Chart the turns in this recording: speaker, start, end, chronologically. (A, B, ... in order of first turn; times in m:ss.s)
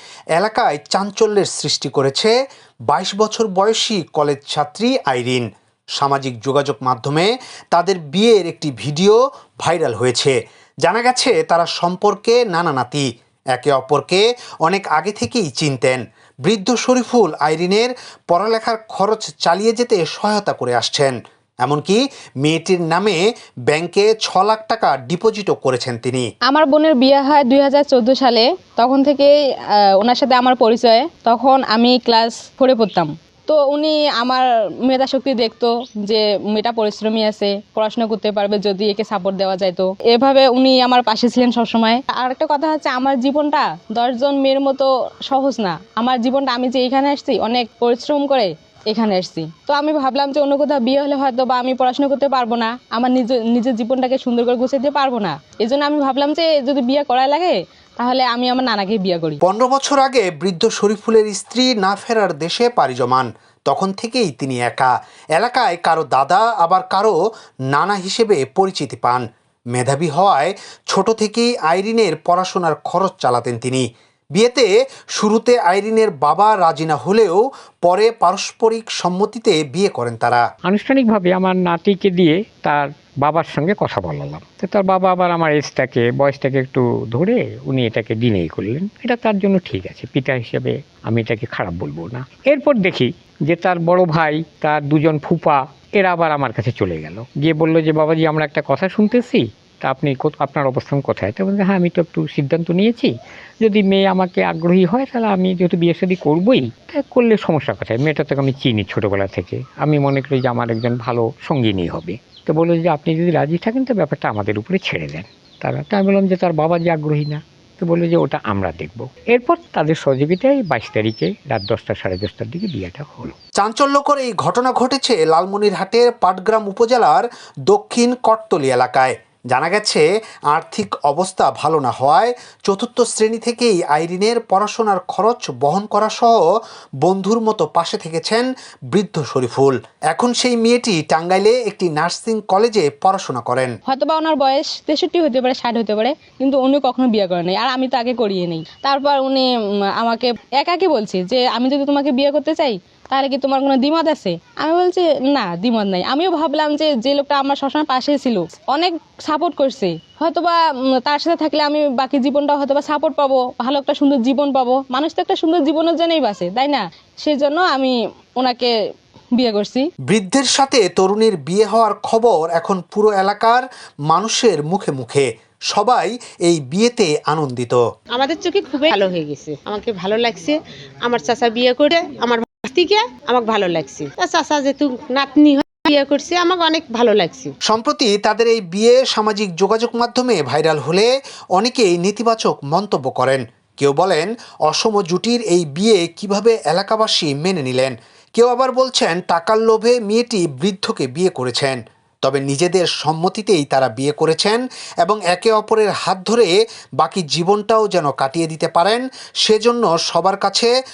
0:00.4-0:02.3 A
0:02.9-0:05.4 A
0:06.0-0:26.3 A
0:26.5-0:29.3 B
0:30.0-0:59.4 B
0:59.4-1:07.2 A
1:07.7-1:09.2 A
1:09.7-1:13.8 A
1:14.3-1:20.4 A
1:20.6-1:43.1 C
1:43.6-2:03.3 C
2:03.6-2:16.4 A
2:17.0-2:23.7 A
2:23.9-2:29.4 B
2:30.0-2:48.7 B
2:49.3-2:49.8 B
2:50.1-2:57.8 A
2:58.1-3:07.5 D
3:07.6-3:30.7 A